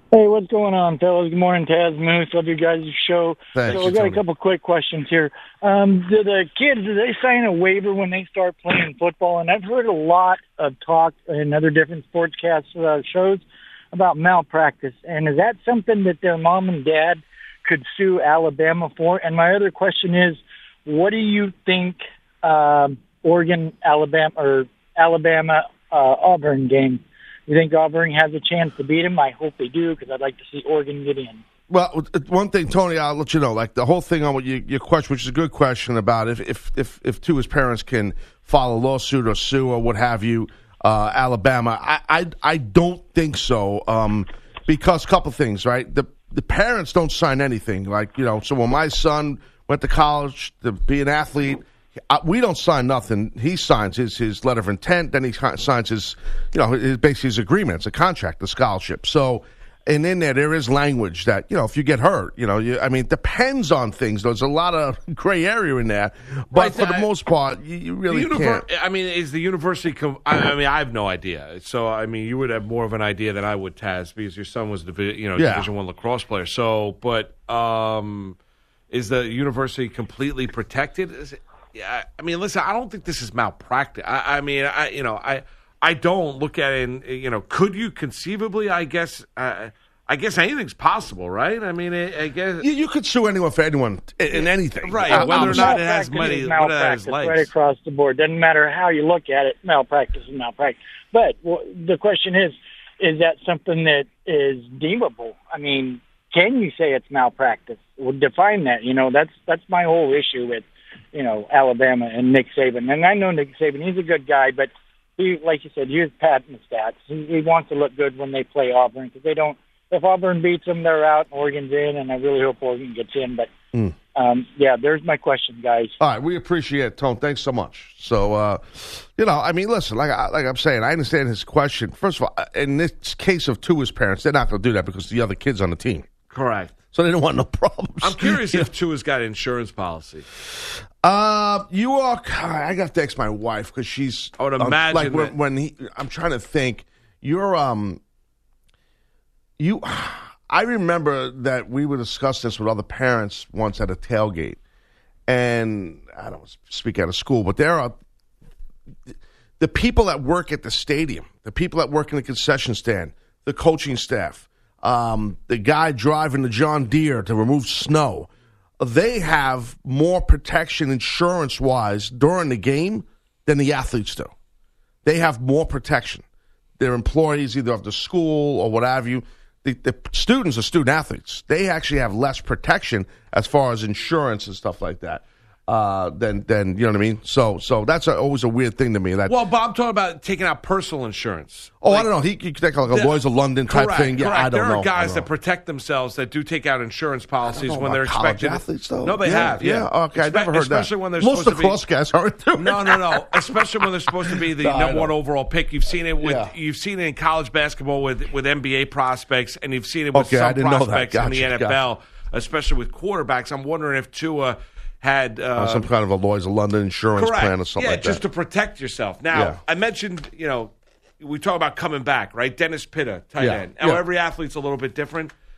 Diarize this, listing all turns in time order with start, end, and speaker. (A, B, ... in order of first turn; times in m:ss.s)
0:00.1-0:31.4 A
0:03.5-0:04.2 B
0:31.7-1:08.6 B
1:06.5-1:07.1 C
1:08.1-1:18.4 C
1:15.4-1:15.7 B
1:18.9-1:32.6 C
1:32.6-1:35.8 B
1:34.8-1:37.5 C
1:35.0-2:03.5 A
2:04.1-2:06.0 A
2:06.0-2:16.1 B
2:16.3-2:16.7 C
2:16.9-2:18.7 B
2:18.0-2:20.2 C
2:21.0-2:28.0 B
2:24.4-2:25.3 C
2:29.6-2:34.6 B
2:35.3-2:38.0 B
2:39.6-2:48.3 B
2:48.8-2:54.3 B
2:55.0-2:56.2 B
2:56.8-3:09.4 B
3:09.3-3:12.1 C
3:11.8-3:15.3 B
3:12.9-3:21.8 C
3:17.5-3:25.1 B
3:22.6-3:35.9 C
3:26.2-3:26.5 B
3:30.1-3:31.8 B
3:35.6-3:38.2 B
3:37.2-3:45.3 C
3:39.3-3:39.6 B
3:43.4-3:44.0 B